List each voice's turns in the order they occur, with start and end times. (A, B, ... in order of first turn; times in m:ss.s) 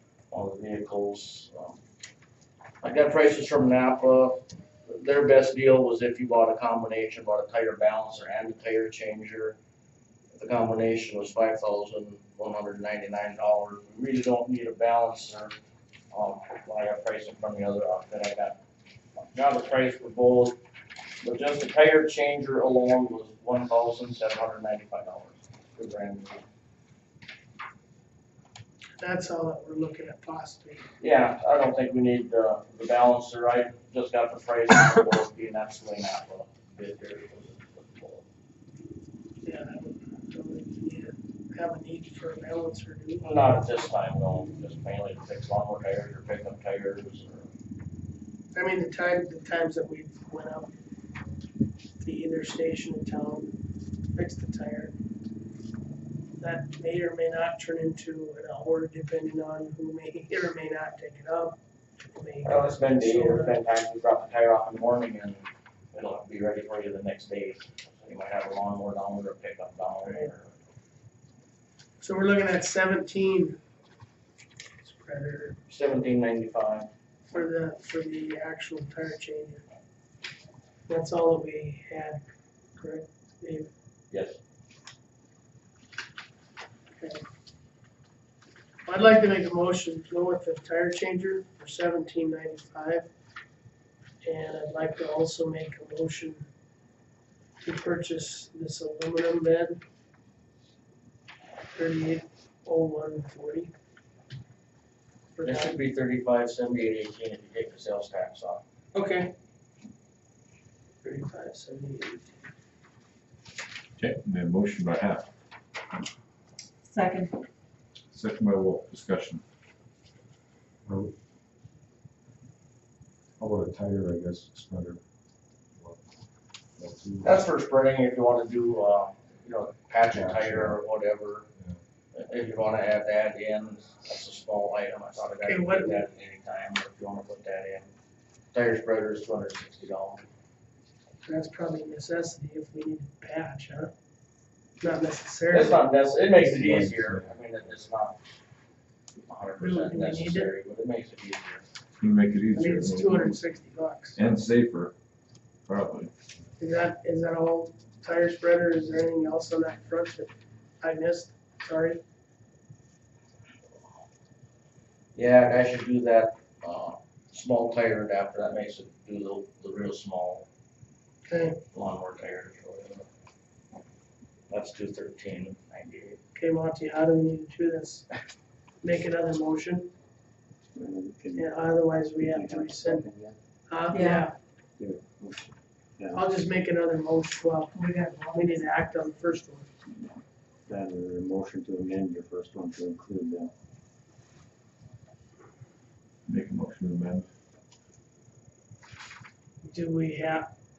0:00.3-0:01.8 A
0:02.8-0:09.6 A
0:10.3-0:15.6 A
0:16.1-0:18.6 A
0:19.3-0:20.6 A
0:21.2-0:26.4 A
0:29.0-0:30.8 B
0:31.0-0:38.2 A
0:39.4-0:43.3 B
0:43.2-0:47.5 A
0:48.5-0:50.7 B
0:52.0-0:53.5 B
0:54.1-0:54.9 B
0:56.4-1:03.6 B
1:02.4-1:10.5 A
1:12.0-1:13.6 B
1:14.8-1:15.6 B
1:15.7-1:16.9 A
1:17.3-1:19.6 B
1:20.9-1:22.2 B
1:22.8-1:23.7 B
1:24.1-1:24.4 A
1:28.8-1:33.1 B
1:34.2-1:36.4 B
1:37.6-1:39.8 B
1:41.7-1:43.7 B
1:45.4-1:45.8 B
1:45.4-1:48.6 A
1:48.9-1:49.3 B
1:51.0-1:52.4 B
1:54.0-1:55.3 C
1:56.9-1:57.3 D
1:58.1-1:59.4 C
2:00.8-2:01.1 E
2:03.4-2:05.0 E
2:06.8-2:07.4 E
2:07.2-2:11.5 A
2:10.1-2:10.8 E
2:12.1-2:17.9 A
2:15.4-2:16.0 B
2:18.5-2:20.3 A
2:21.2-2:23.9 B
2:24.8-2:26.1 B
2:25.5-2:28.2 A
2:26.4-2:27.1 C
2:29.2-2:31.6 A
2:29.6-2:30.5 B
2:32.0-2:33.4 C
2:32.5-2:34.2 B
2:34.1-2:34.9 C
2:35.6-2:36.1 C
2:36.6-2:42.0 B
2:45.1-2:50.5 A
2:51.3-2:51.6 B
2:51.7-2:53.1 A
2:54.5-2:56.2 A
2:56.3-2:58.1 B
2:58.8-2:59.9 B
3:00.7-3:01.6 F
3:01.4-3:03.0 B
3:02.2-3:03.4 F
3:03.7-3:04.3 B
3:03.9-3:04.3 D
3:04.8-3:06.2 F
3:06.1-3:07.8 B
3:07.7-3:08.7 D
3:08.3-3:09.7 B
3:10.7-3:13.5 F
3:16.2-3:17.3 C
3:19.6-3:20.5 B